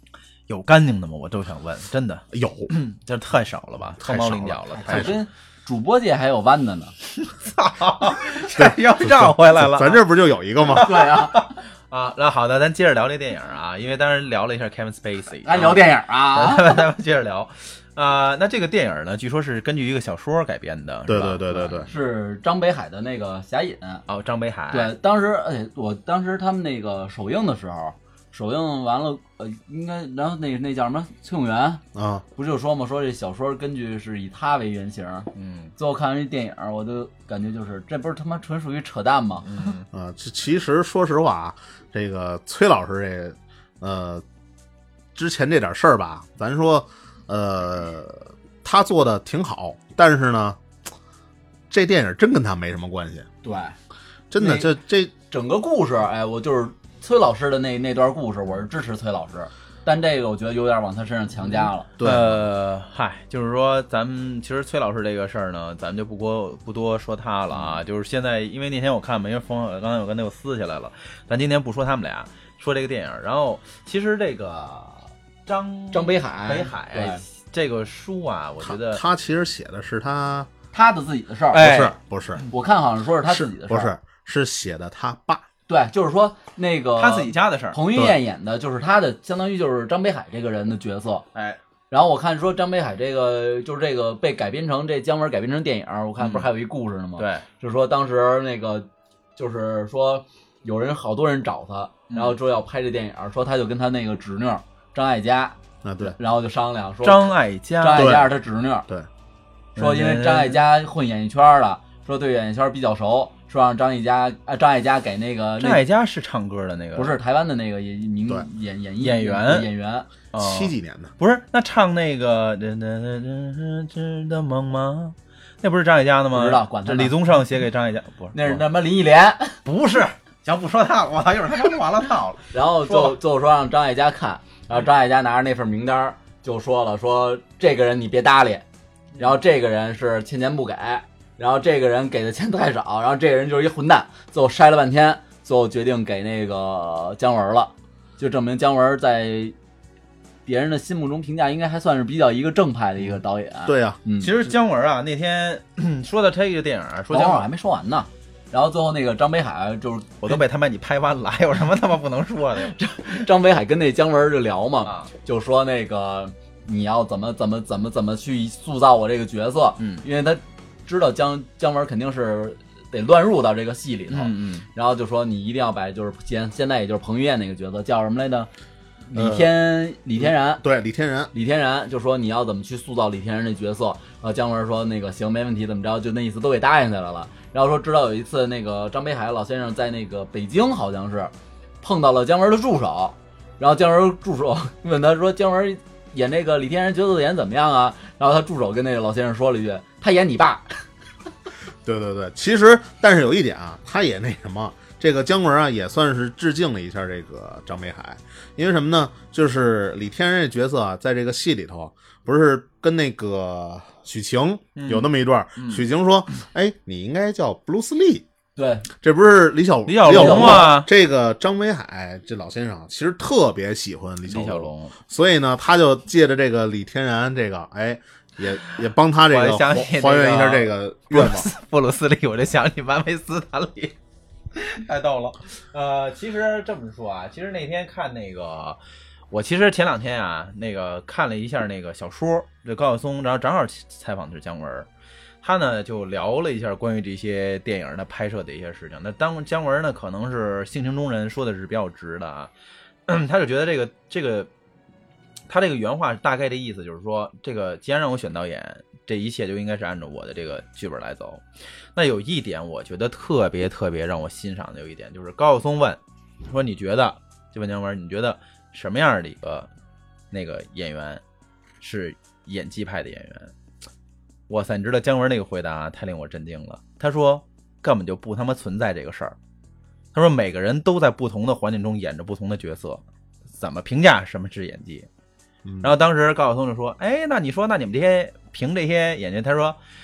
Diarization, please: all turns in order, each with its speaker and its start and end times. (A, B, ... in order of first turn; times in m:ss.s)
0:00.5-0:05.2 A
0:02.3-0:02.7 B
0:04.0-0:05.1 B
0:04.8-0:06.9 C
0:07.2-0:10.0 A
0:08.6-0:11.0 B
0:10.7-0:21.9 A
0:10.7-0:11.6 C
0:15.4-0:16.8 C
0:21.1-0:21.9 B
0:21.8-0:24.0 C
0:24.1-0:24.9 A
0:24.7-0:31.8 C
0:31.9-0:32.2 B
0:32.4-0:39.7 C
0:35.3-0:35.7 A
0:39.4-0:39.8 A
0:39.9-0:44.2 B
0:45.1-0:50.6 B
0:51.7-0:53.3 B
0:53.4-0:53.8 C
0:54.3-0:55.1 B
0:54.4-0:54.7 C
0:55.3-1:01.9 C
1:02.0-1:02.4 B
1:02.0-1:19.0 A
1:15.9-1:17.2 C
1:18.6-1:20.5 B
1:20.7-1:21.6 C
1:21.5-1:21.9 A
1:21.6-1:22.4 B
1:22.5-1:23.9 C
1:23.2-1:25.4 B
1:25.7-1:31.2 C
1:27.0-1:27.8 A
1:31.3-1:31.6 A
1:31.9-1:48.9 C
1:36.2-1:36.5 A
1:37.2-1:37.4 A
1:42.1-1:42.4 A
1:45.8-1:46.1 B
1:47.0-1:48.2 A
1:47.9-1:48.3 B
1:49.8-1:50.6 A
1:49.8-1:55.8 C
1:55.6-1:57.2 A
1:57.0-2:00.1 C
1:59.0-1:59.7 A
2:00.3-2:08.6 A
2:00.4-2:01.1 B
2:06.3-2:07.2 C
2:08.3-2:09.6 C
2:09.6-2:13.2 A
2:12.5-2:18.6 C
2:19.2-2:29.6 C
2:30.4-2:34.3 C
2:33.6-2:34.0 B
2:34.2-2:37.4 A
2:37.1-2:40.4 C
2:40.2-2:43.2 A
2:43.1-2:58.5 C
2:44.8-2:45.1 A
2:49.8-2:50.0 A
2:54.1-2:54.7 A
2:59.1-3:00.6 C
2:59.1-2:59.5 B
3:00.2-3:01.3 B
3:01.3-3:20.8 C
3:21.8-3:38.2 B
3:34.7-3:35.8 A
3:38.6-3:38.9 C
3:39.0-3:51.5 B
3:39.9-3:40.9 A
3:40.0-3:40.7 C
3:44.2-3:44.9 A
3:49.3-3:53.9 A
3:54.5-3:58.8 A
3:59.3-4:04.9 A
4:05.4-4:12.5 A
4:13.1-4:14.5 A
4:15.5-4:21.4 A
4:21.9-4:29.7 A
4:30.3-4:31.2 A
4:31.8-4:33.5 A
4:34.5-4:39.4 A
4:40.1-4:43.0 A
4:43.6-4:45.1 A
4:45.6-4:45.9 B
4:45.8-4:49.8 A